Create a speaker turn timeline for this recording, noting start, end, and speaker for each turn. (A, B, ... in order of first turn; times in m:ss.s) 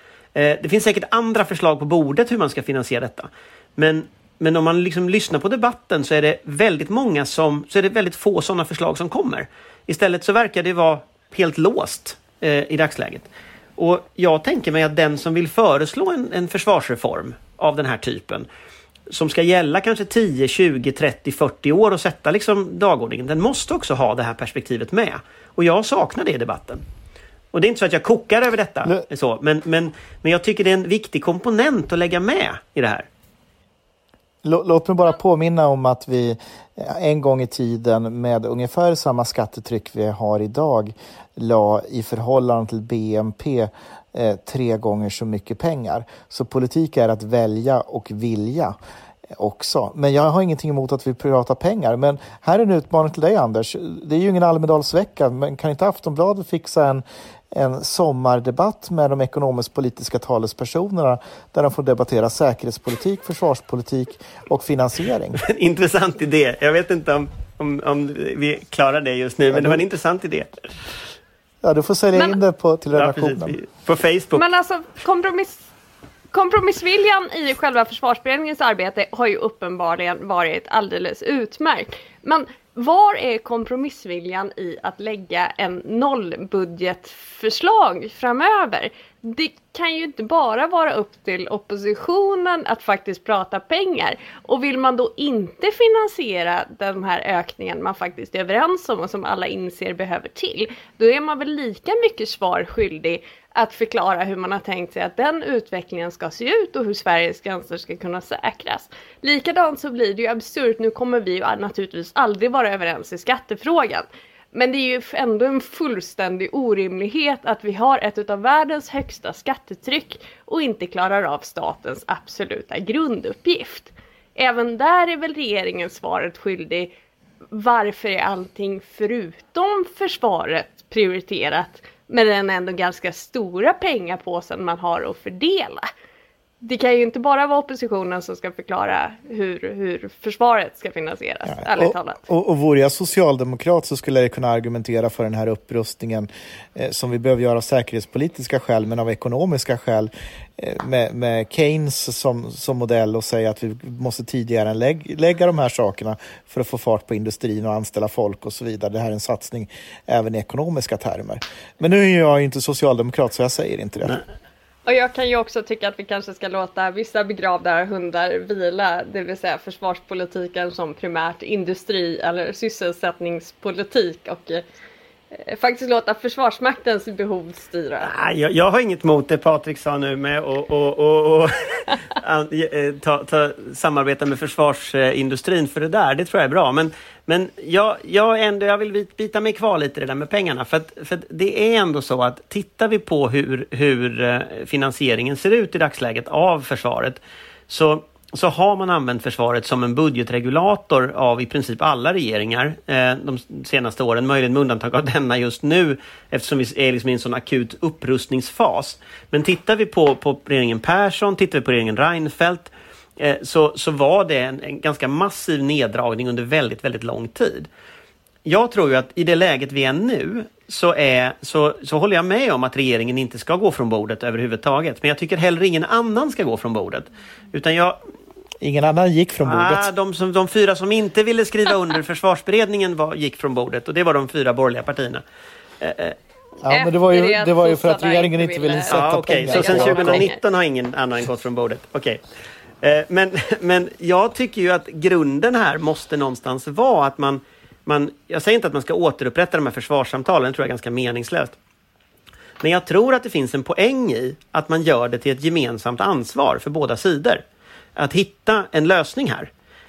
0:00.4-0:18.5 A
0:19.1-0:26.8 A
0:27.5-0:33.1 A
0:34.4-0:48.8 B
0:49.4-1:05.4 B
1:05.4-1:10.7 A
1:09.5-1:09.8 B
1:11.6-1:13.6 B
1:13.0-1:14.4 A
1:14.3-1:15.7 C
1:16.3-2:06.9 C
2:07.5-2:15.8 C
2:16.6-2:22.2 C
2:21.5-2:44.2 B
2:44.9-2:54.6 C
2:55.3-2:58.1 C
2:58.0-3:37.7 A
3:38.4-3:48.0 A
3:48.6-3:49.9 B
3:49.4-3:55.2 A
3:55.8-3:56.2 A
3:56.6-4:00.3 B
3:56.7-4:00.4 C
3:58.9-4:02.2 A
4:02.8-4:11.6 A
4:12.6-4:17.4 A
4:18.0-4:19.5 A